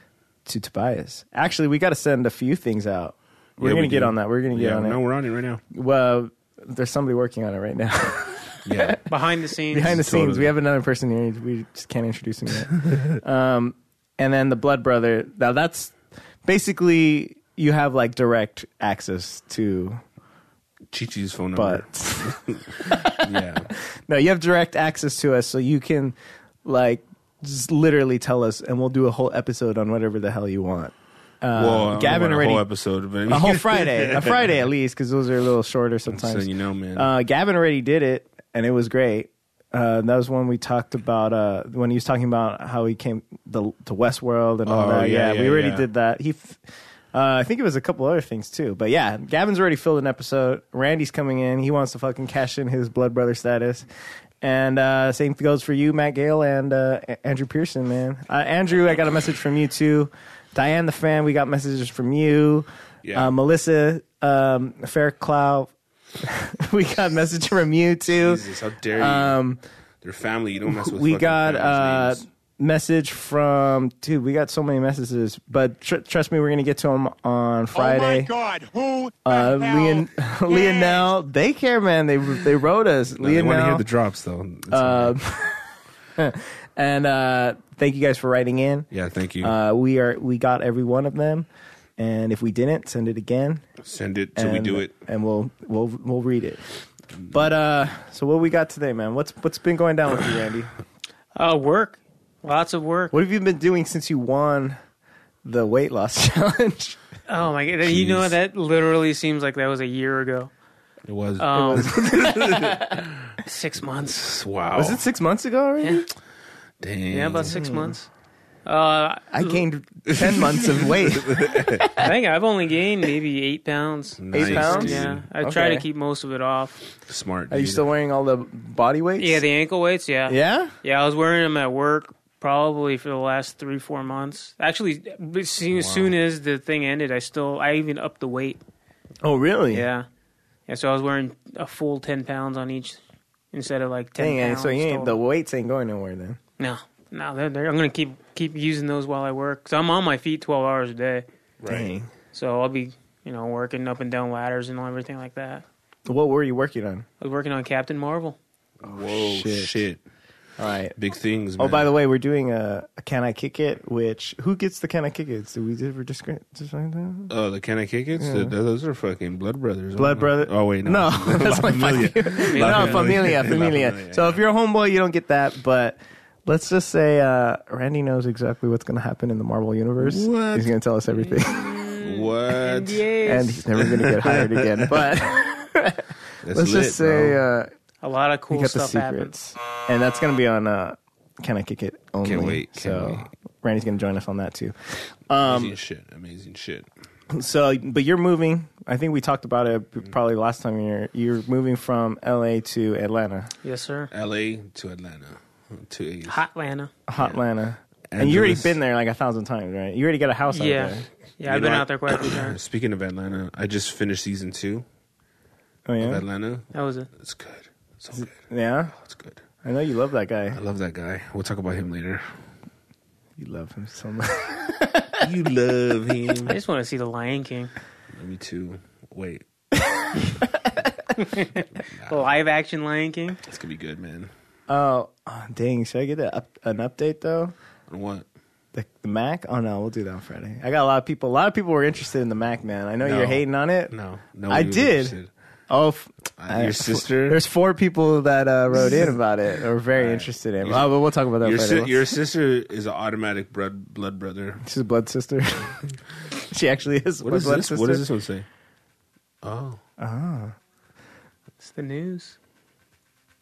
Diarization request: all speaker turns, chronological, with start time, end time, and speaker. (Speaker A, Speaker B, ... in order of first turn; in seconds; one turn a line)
Speaker A: 0.5-5.0
Speaker B: 3.6-5.6
Speaker A: 5.7-9.0
Speaker B: 8.6-9.0
Speaker C: 9.1-10.0
Speaker A: 9.7-20.0
Speaker B: 9.8-10.5
Speaker B: 20.9-23.7
Speaker A: 21.5-23.4
Speaker A: 23.9-32.6
Speaker B: 31.5-34.6
Speaker A: 33.3-46.6
Speaker B: 36.1-37.1
Speaker B: 44.6-45.9
Speaker A: 47.1-53.9
Speaker A: 54.4-69.6
Speaker B: 63.0-63.3
Speaker B: 68.1-69.4
Speaker B: 70.0-72.2
Speaker A: 70.7-78.3
Speaker D: 77.7-81.1
Speaker A: 79.2-83.8
Speaker B: 83.2-85.2
Speaker A: 84.7-85.6
Speaker A: 86.2-88.9
Speaker B: 88.9-89.5
Speaker A: 89.4-93.6
Speaker B: 93.8-94.9
Speaker A: 94.3-96.6
Speaker A: 97.3-100.7
Speaker C: 101.3-103.1
Speaker A: 103.1-104.8
Speaker A: 105.4-107.0
Speaker C: 107.3-110.5
Speaker B: 107.8-108.3
Speaker B: 111.0-113.3
Speaker C: 111.4-111.9
Speaker A: 111.5-112.8
Speaker C: 113.4-114.2
Speaker B: 114.0-115.0
Speaker A: 114.7-116.1
Speaker B: 116.8-117.5
Speaker C: 117.1-118.1
Speaker A: 117.4-118.0
Speaker C: 118.7-119.7
Speaker A: 119.3-122.1
Speaker B: 120.1-121.9
Speaker C: 122.0-126.8
Speaker B: 124.2-125.2
Speaker A: 124.3-125.8
Speaker B: 127.1-127.8
Speaker A: 127.5-129.4
Speaker C: 129.2-138.6
Speaker A: 130.3-130.7
Speaker B: 135.7-136.1
Speaker A: 139.2-139.8
Speaker C: 139.7-140.1
Speaker C: 140.7-143.0
Speaker C: 143.5-145.2
Speaker A: 144.2-146.4
Speaker C: 146.6-151.2
Speaker B: 151.6-151.9
Speaker A: 151.7-152.1
Speaker C: 152.3-155.6
Speaker A: 156.1-157.1
Speaker C: 157.2-158.4
Speaker B: 158.8-160.0
Speaker A: 158.8-159.8
Speaker A: 160.6-160.9
Speaker B: 161.0-161.9
Speaker A: 161.6-167.3
Speaker B: 167.3-174.4
Speaker A: 168.2-168.5
Speaker A: 169.9-181.7
Speaker C: 172.5-173.4
Speaker B: 180.0-180.7
Speaker C: 181.4-183.6
Speaker B: 182.0-183.1
Speaker A: 183.2-187.7
Speaker B: 183.8-185.0
Speaker B: 186.4-187.4
Speaker C: 188.0-189.3
Speaker A: 188.5-195.7
Speaker B: 192.2-193.3
Speaker B: 195.4-196.9
Speaker A: 197.3-203.5
Speaker C: 203.6-204.1
Speaker B: 204.1-206.4
Speaker C: 206.3-206.9
Speaker A: 207.1-211.0
Speaker B: 208.1-208.8
Speaker C: 210.5-212.6
Speaker B: 211.4-214.8
Speaker A: 215.8-216.2
Speaker B: 216.0-218.3
Speaker C: 216.7-217.1
Speaker A: 218.2-218.9
Speaker B: 218.9-219.4
Speaker A: 219.6-220.6
Speaker B: 220.5-222.2
Speaker A: 223.4-225.2
Speaker B: 225.2-226.6
Speaker C: 226.4-227.7
Speaker B: 228.1-229.4
Speaker A: 229.9-230.8
Speaker C: 231.2-233.4
Speaker B: 231.9-232.3
Speaker B: 233.4-234.3
Speaker A: 234.7-237.5
Speaker B: 237.9-238.2
Speaker A: 238.7-243.9
Speaker B: 243.0-245.3
Speaker A: 244.5-245.2
Speaker A: 245.7-252.1
Speaker B: 246.4-247.4
Speaker B: 249.9-254.6
Speaker A: 254.6-255.8
Speaker A: 256.3-258.1
Speaker B: 257.2-258.4
Speaker B: 259.4-259.8
Speaker A: 260.0-260.5
Speaker C: 261.6-262.4